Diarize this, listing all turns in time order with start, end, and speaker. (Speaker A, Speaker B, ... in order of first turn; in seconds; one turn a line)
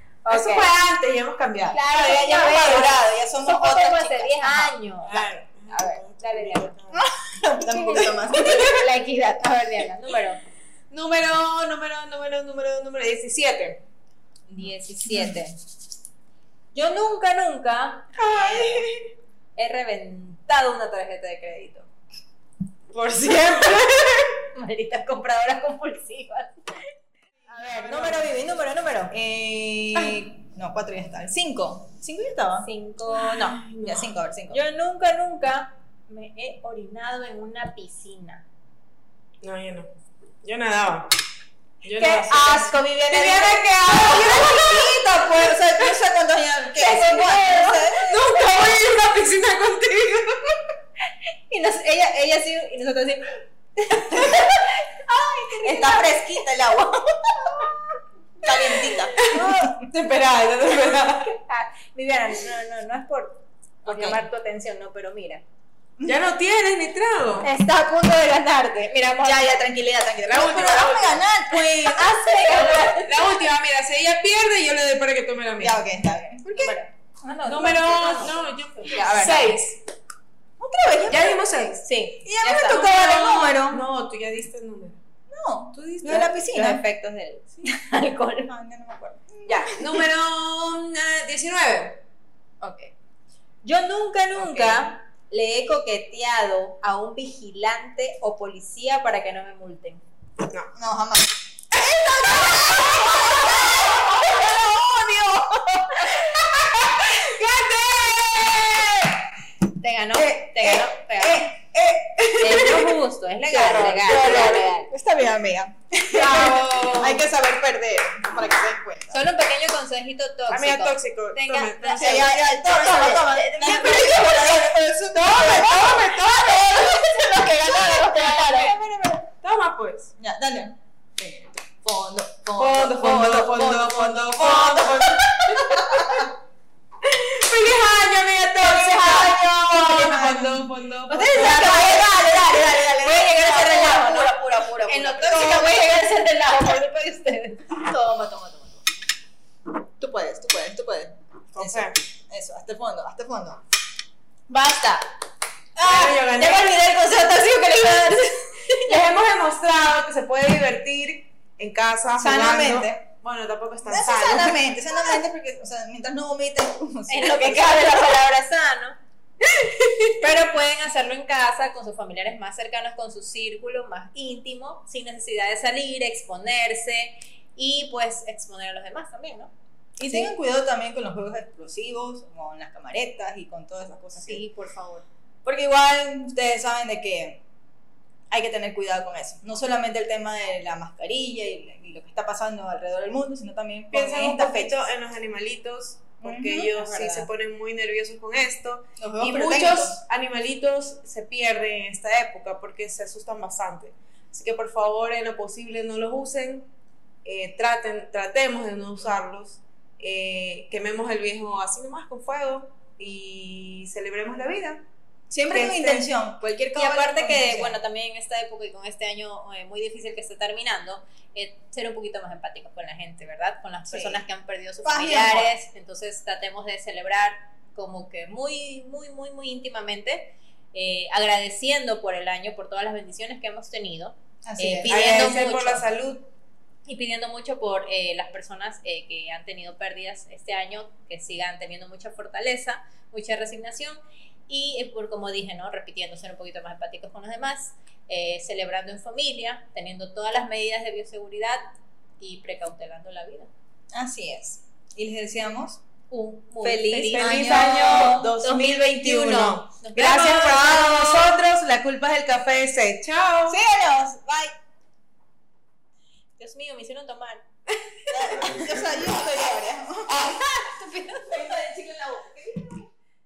Speaker A: 0.2-0.7
Speaker B: 0.3-2.6
Speaker A: 1.6-6.7
Speaker C: 1.9-4.8
Speaker B: 5.0-7.0
Speaker C: 6.9-8.7
Speaker A: 7.7-10.4
Speaker B: 8.3-8.8
Speaker B: 10.9-13.8
Speaker A: 14.5-15.6
Speaker C: 15.1-15.4
Speaker A: 16.7-18.8
Speaker B: 18.2-19.1
Speaker C: 18.4-18.8
Speaker A: 19.6-21.9
Speaker B: 22.9-24.4
Speaker A: 24.6-26.6
Speaker A: 27.5-29.1
Speaker C: 27.9-28.3
Speaker C: 29.1-32.7
Speaker A: 32.6-33.6
Speaker B: 33.2-34.1
Speaker C: 33.8-34.6
Speaker A: 34.5-38.4
Speaker B: 39.4-39.9
Speaker B: 40.4-41.1
Speaker B: 41.8-45.0
Speaker A: 41.9-43.7
Speaker C: 43.6-48.2
Speaker A: 46.8-48.7
Speaker B: 48.0-50.6
Speaker A: 51.5-56.4
Speaker C: 55.7-57.7
Speaker A: 57.5-57.8
Speaker C: 58.4-59.2
Speaker A: 58.5-59.8
Speaker B: 59.1-61.3
Speaker A: 61.0-65.4
Speaker C: 63.9-64.3
Speaker B: 66.0-67.5
Speaker A: 67.4-69.6
Speaker C: 69.2-72.7
Speaker B: 70.2-71.8
Speaker A: 71.9-73.2
Speaker B: 72.5-75.8
Speaker C: 75.6-76.8
Speaker A: 76.5-78.3
Speaker B: 77.5-79.8
Speaker A: 78.9-79.6
Speaker C: 80.6-81.4
Speaker B: 81.1-81.9
Speaker A: 81.8-82.8
Speaker C: 82.2-83.8
Speaker B: 82.7-85.0
Speaker C: 85.3-86.8
Speaker B: 85.8-86.3
Speaker A: 86.5-88.5
Speaker C: 88.5-89.8
Speaker B: 89.5-92.0
Speaker A: 92.6-92.9
Speaker A: 93.6-100.0
Speaker B: 94.3-94.9
Speaker C: 100.8-101.3
Speaker B: 101.8-109.2
Speaker C: 103.2-104.0
Speaker C: 105.3-105.9
Speaker A: 109.8-111.5
Speaker C: 110.1-112.3
Speaker B: 112.2-114.7
Speaker A: 112.4-114.9
Speaker C: 114.2-119.2
Speaker B: 116.1-117.3
Speaker A: 116.2-116.4
Speaker A: 119.1-124.6
Speaker B: 120.5-124.1
Speaker C: 122.0-129.3
Speaker B: 125.1-126.9
Speaker A: 127.2-128.8
Speaker B: 127.7-128.7
Speaker B: 129.4-130.1
Speaker C: 130.2-130.8
Speaker B: 131.2-131.5
Speaker C: 131.8-136.3
Speaker B: 132.6-136.3
Speaker B: 137.0-141.9
Speaker C: 138.6-146.0
Speaker A: 141.1-147.7
Speaker C: 147.7-148.8
Speaker C: 150.0-153.6
Speaker B: 151.6-152.0
Speaker A: 154.5-155.1
Speaker B: 155.8-156.7
Speaker A: 155.8-159.0
Speaker B: 158.9-164.6
Speaker C: 162.2-163.0
Speaker C: 163.8-168.0
Speaker A: 167.1-169.0
Speaker B: 169.6-170.0
Speaker A: 170.2-179.5
Speaker C: 180.0-184.4
Speaker A: 184.2-185.1
Speaker C: 185.4-187.4
Speaker C: 188.3-194.8
Speaker B: 193.9-206.7
Speaker C: 196.2-197.2
Speaker C: 199.0-200.0
Speaker B: 207.2-214.8
Speaker C: 215.3-217.8
Speaker B: 215.5-216.1
Speaker A: 216.8-235.9
Speaker C: 223.9-224.2
Speaker C: 224.8-225.5
Speaker C: 234.4-235.3
Speaker B: 234.9-236.3
Speaker A: 236.8-253.5
Speaker C: 253.9-255.8
Speaker A: 256.1-261.4
Speaker C: 256.6-258.4
Speaker B: 256.9-263.6
Speaker C: 263.5-264.5
Speaker A: 266.4-267.4
Speaker C: 268.1-270.2
Speaker B: 268.1-268.7
Speaker A: 270.2-271.6
Speaker C: 271.2-272.8